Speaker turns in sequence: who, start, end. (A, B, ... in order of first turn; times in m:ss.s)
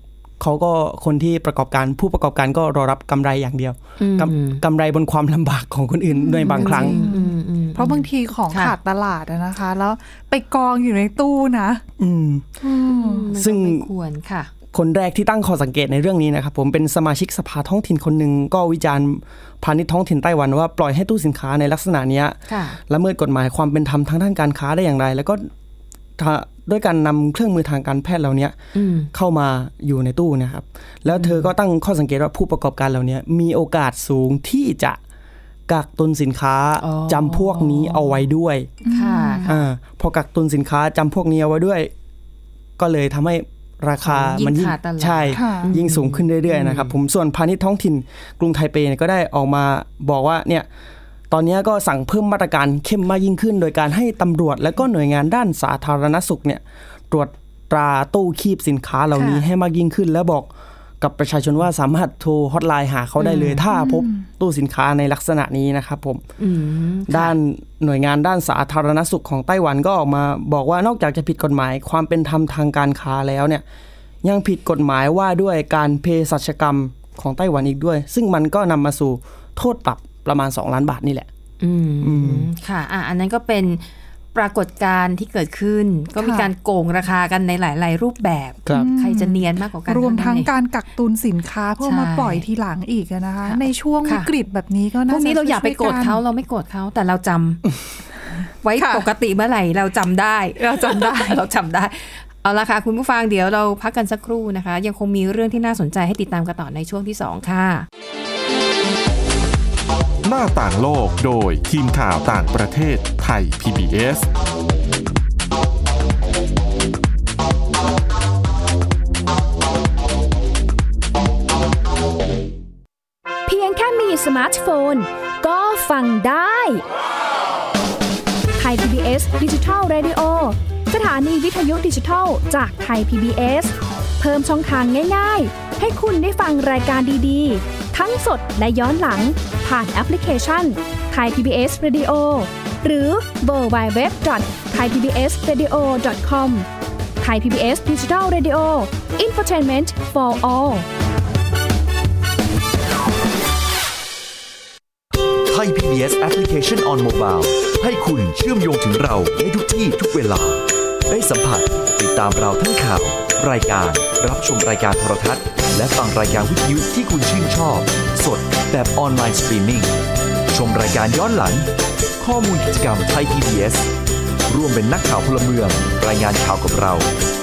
0:00.4-0:07.0 A
0:04.0-0:04.6 B
0:06.1-0:11.8 C
0:06.5-0:08.7 B
0:12.0-0:12.6 A
0:12.6-0:13.2 C
0:12.9-0:14.5 B
0:13.3-0:13.9 A
0:14.7-0:25.5 A
0:22.5-0:22.8 B
0:26.2-0:28.6 A
0:28.7-0:29.1 B
0:29.1-0:35.0 A
0:31.1-0:31.5 B
0:35.7-0:38.7 A
0:36.8-0:38.2 B
0:38.8-0:39.6 C
0:38.9-0:39.5 B
0:39.5-0:41.9 A
0:42.8-0:50.7 A
0:44.0-0:46.9 B
0:45.3-0:45.7 C
0:51.3-1:00.5 A
0:59.1-0:59.4 B
1:01.0-1:06.2 A
1:03.2-1:03.6 B
1:03.7-1:04.3 C
1:06.4-1:07.4 B
1:07.1-1:13.6 A
1:14.2-1:21.3 A
1:21.6-1:30.5 B
1:22.0-1:22.5 A
1:26.2-1:26.5 C
1:28.7-1:36.2 C
1:31.8-1:32.4 B
1:33.4-1:34.3 B
1:35.1-1:37.6 B
1:38.6-1:47.8 B
1:38.8-1:39.0 C
1:40.6-1:41.4 C
1:50.2-1:54.3 D
2:03.5-2:06.8 E
2:08.6-2:26.7 E
2:27.2-2:30.9 E
2:35.5-2:49.9 F
2:50.5-2:53.9 F
2:54.5-2:57.1 F